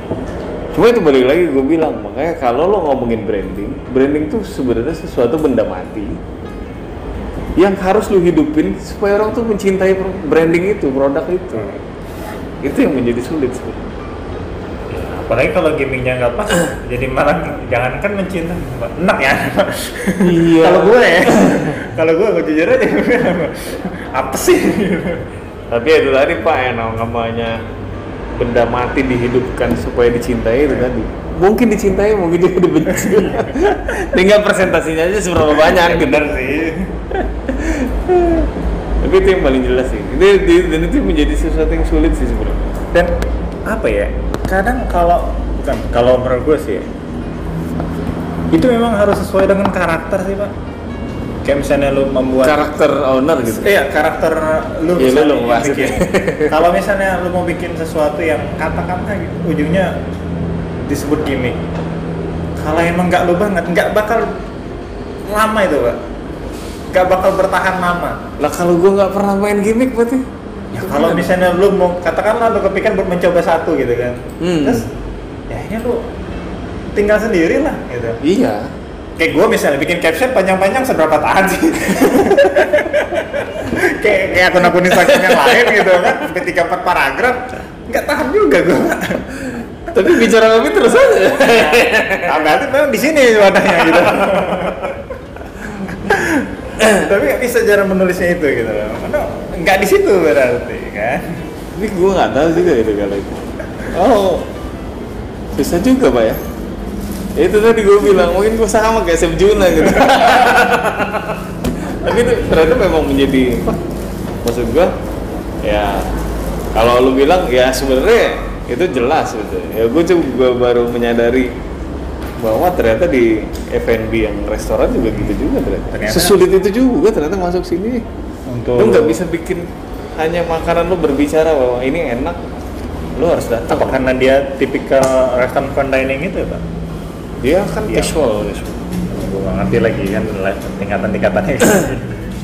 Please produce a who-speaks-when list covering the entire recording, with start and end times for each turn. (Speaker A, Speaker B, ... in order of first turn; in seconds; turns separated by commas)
Speaker A: 0.7-6.2, Speaker A: 7.6-11.8, Speaker A: 12.6-13.9, Speaker B: 14.9-25.2, Speaker A: 20.2-21.9, Speaker A: 25.7-27.6, Speaker A: 28.3-36.3, Speaker B: 33.0-33.6, Speaker B: 35.6-37.1, Speaker A: 37.5-42.7, Speaker B: 43.7-46.9, Speaker B: 48.5-50.5, Speaker B: 51.5-52.7, Speaker A: 52.4-53.8, Speaker B: 53.6-60.0, Speaker A: 55.0-56.6, Speaker B: 60.8-61.6, Speaker B: 62.6-64.3, Speaker B: 65.3-66.0, Speaker B: 66.9-68.2, Speaker A: 68.4-70.3, Speaker B: 70.7-74.9, Speaker A: 70.8-71.3, Speaker A: 74.4-74.9, Speaker B: 75.5-76.0, Speaker B: 76.9-78.2, Speaker A: 78.2-78.7, Speaker B: 79.2-89.3, Speaker A: 82.1-82.7, Speaker A: 84.6-86.2, Speaker A: 89.9-92.5, Speaker B: 91.3-95.0, Speaker A: 93.8-94.8, Speaker B: 95.9-101.4, Speaker A: 96.8-97.0, Speaker A: 101.7-104.5, Speaker A: 105.5-106.4, Speaker A: 107.4-113.8, Speaker A: 114.4-114.9, Speaker A: 115.6-116.2, Speaker A: 116.7-121.5, Speaker A: 122.4-128.1, Speaker B: 125.9-126.4, Speaker B: 128.5-129.2, Speaker A: 128.8-132.4, Speaker A: 133.2-134.1, Speaker B: 133.7-136.6, Speaker A: 137.4-138.8, Speaker B: 137.9-138.2, Speaker B: 139.1-142.2